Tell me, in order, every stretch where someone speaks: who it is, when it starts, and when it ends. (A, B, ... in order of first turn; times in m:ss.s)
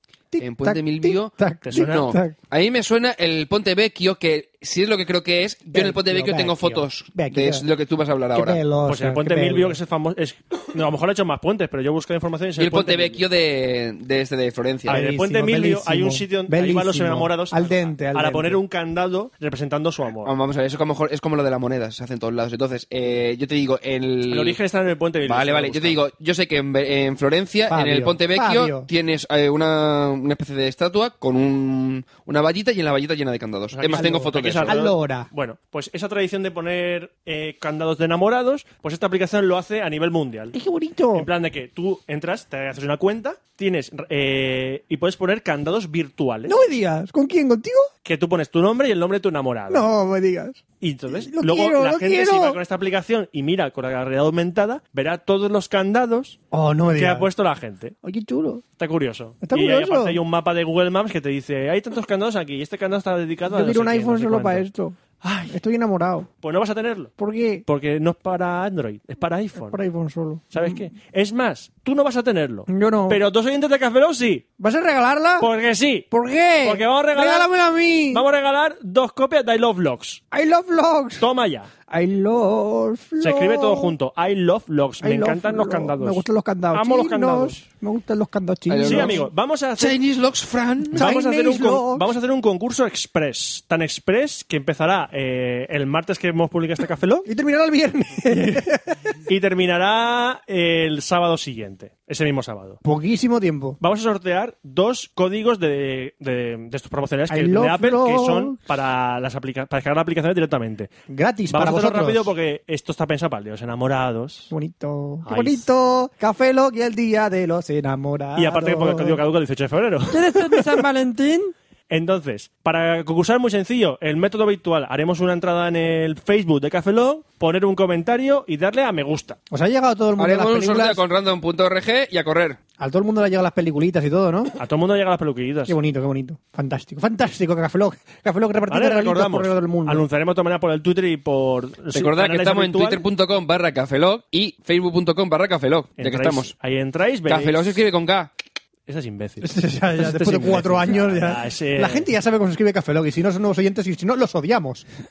0:00.3-0:02.4 A
0:00.4-0:08.6 B
0:01.6-0:02.1 C
0:05.7-0:07.6 A
0:08.3-0:09.8 A
0:08.8-0:13.3 C
0:12.6-0:15.0 B
0:14.9-0:18.6 A
0:14.9-0:20.3 C
0:20.2-0:24.6 B
0:24.3-0:26.0 C
0:25.2-0:34.8 B
0:27.7-0:28.9 A
0:33.7-0:40.6 C
0:33.9-0:35.3 A
0:40.5-0:41.3 A
0:41.1-0:46.6 C
0:46.5-0:47.9 A
0:48.0-0:49.9 C
0:49.7-0:50.6 A
0:50.8-0:56.4 C
0:51.2-0:52.6 A
0:56.5-0:57.3 A
0:56.9-0:57.9 C
0:58.0-0:58.6 A
0:58.8-1:04.6 C
0:59.4-1:00.2 A
1:03.5-1:06.3 A
1:05.2-1:05.5 C
1:06.4-1:07.1 C
1:07.2-1:07.6 A
1:07.6-1:09.8 C
1:09.6-1:10.9 A
1:10.5-1:14.4 C
1:12.7-1:13.2 A
1:14.6-1:15.5 A
1:15.4-1:16.1 C
1:16.1-1:18.2 A
1:16.6-1:17.5 C
1:18.1-1:20.2 C
1:20.3-1:21.3 A
1:21.2-1:21.7 C
1:21.9-1:23.9 A
1:23.2-1:27.6 C
1:25.0-1:29.3 A
1:28.7-1:29.2 B
1:28.8-1:30.0 C
1:29.8-1:31.0 B
1:30.9-1:32.1 A
1:30.9-1:37.3 C
1:37.2-1:39.0 A
1:39.3-1:42.8 C
1:42.8-1:43.8 A
1:43.8-1:50.9 C
1:47.3-1:48.6 A
1:51.1-1:52.3 A
1:51.5-1:54.5 C
1:54.5-1:59.2 A
1:55.2-1:55.7 C
1:58.3-2:00.8 C
2:00.1-2:01.5 A
2:01.9-2:09.4 C
2:09.5-2:11.0 A
2:10.2-2:12.6 B
2:12.8-2:14.5 A
2:14.6-2:15.8 C
2:15.7-2:20.0 A
2:18.7-2:23.0 C
2:21.9-2:26.5 B
2:26.0-2:27.8 C
2:27.3-2:28.3 B
2:28.9-2:32.1 C
2:29.4-2:34.8 A